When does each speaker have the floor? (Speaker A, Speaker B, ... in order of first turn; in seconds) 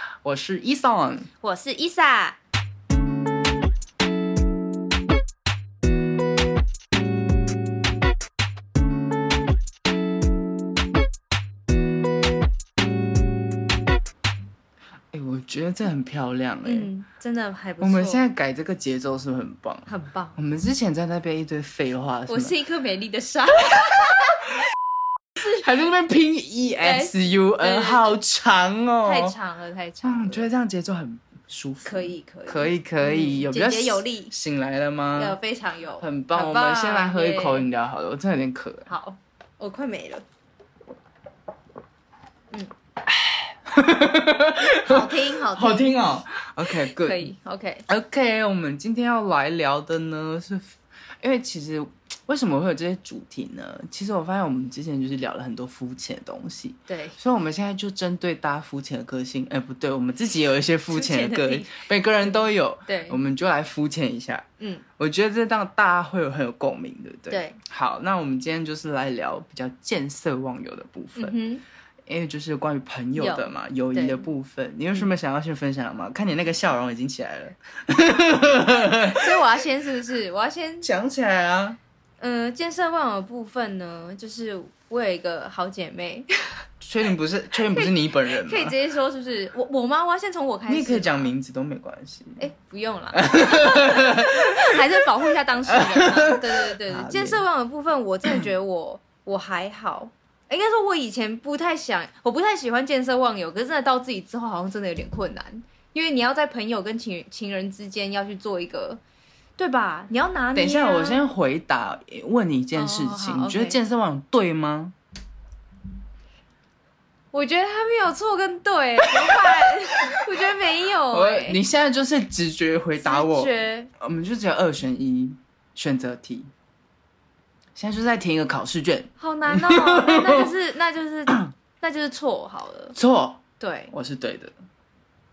Speaker A: 0.2-1.3, 15.1-16.9, 17.8-22.6, 25.4-29.4, 30.0-35.4, 36.0-38.9, 43.1-47.3, 47.9-64.5, 65.0-71.4, 72.1-79.5, 80.8-81.8, 86.8-88.8, 90.7-92.5, 93.2-94.8, 95.7-97.4, 110.5-114.9, 119.2-119.7, 121.1-126.5, 127.8-130.5, 132.9-134.5
Speaker B: 1.4-2.4, 16.6-18.2, 19.9-20.4, 22.3-24.4, 26.8-28.1, 29.0-30.5, 31.9-34.3, 35.1-37.7, 38.9-40.2, 44.8-46.0, 46.7-47.9, 56.9-57.2, 60.9-63.2, 67.3-67.6, 71.2-71.6, 73.2-74.3, 79.1-80.9, 82.2-86.6, 87.7-91.3, 92.4-109.0, 109.6-111.2, 112.8-113.8, 117.3-121.6, 123.0-123.9, 129.2-133.0, 133.6-133.9